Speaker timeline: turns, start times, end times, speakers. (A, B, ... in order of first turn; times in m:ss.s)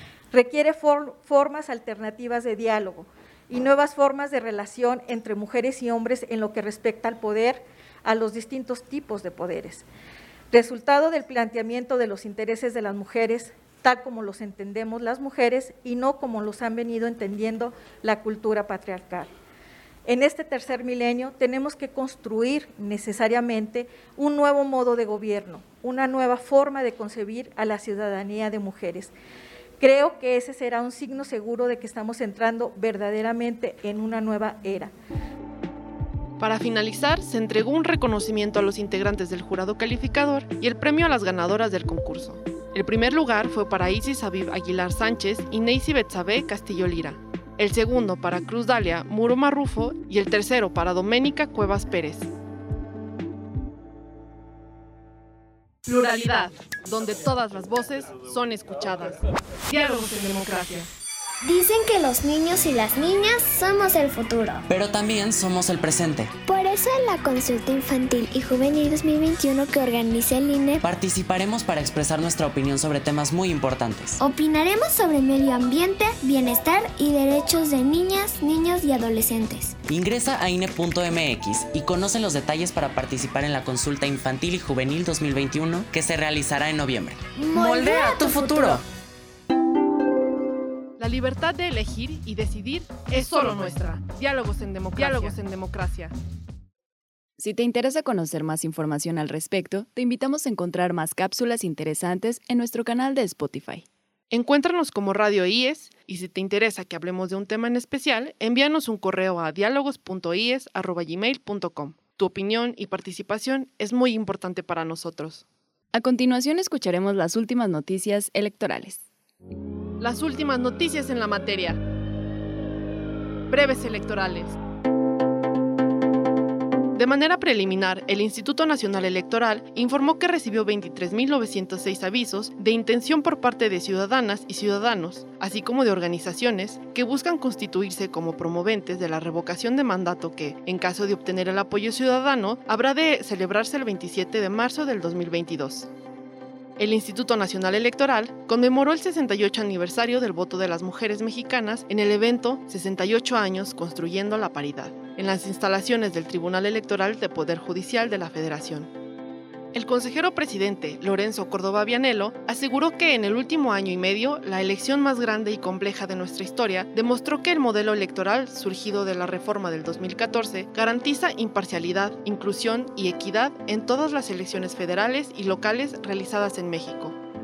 0:00.3-0:09.9 A
0:10.5-0:19.3 A
0:20.0-0:29.1 A
0:29.8-0:34.9 A
0:36.4-0:52.3 B
0:55.9-1:00.9 B
1:01.4-1:04.6 C
1:04.7-1:06.3 D
1:06.4-1:10.8 C
1:10.8-1:14.2 D
1:14.2-1:19.8 C
1:19.9-1:28.8 D
1:27.4-1:28.8 C
1:31.0-1:36.1 B
1:37.4-1:43.9 E
1:44.3-1:55.4 B
1:55.9-1:59.0 E
2:00.0-2:01.8 B
2:03.5-2:04.6 B
2:07.0-2:25.9 B
2:26.8-2:38.9 B
2:39.7-2:57.2 B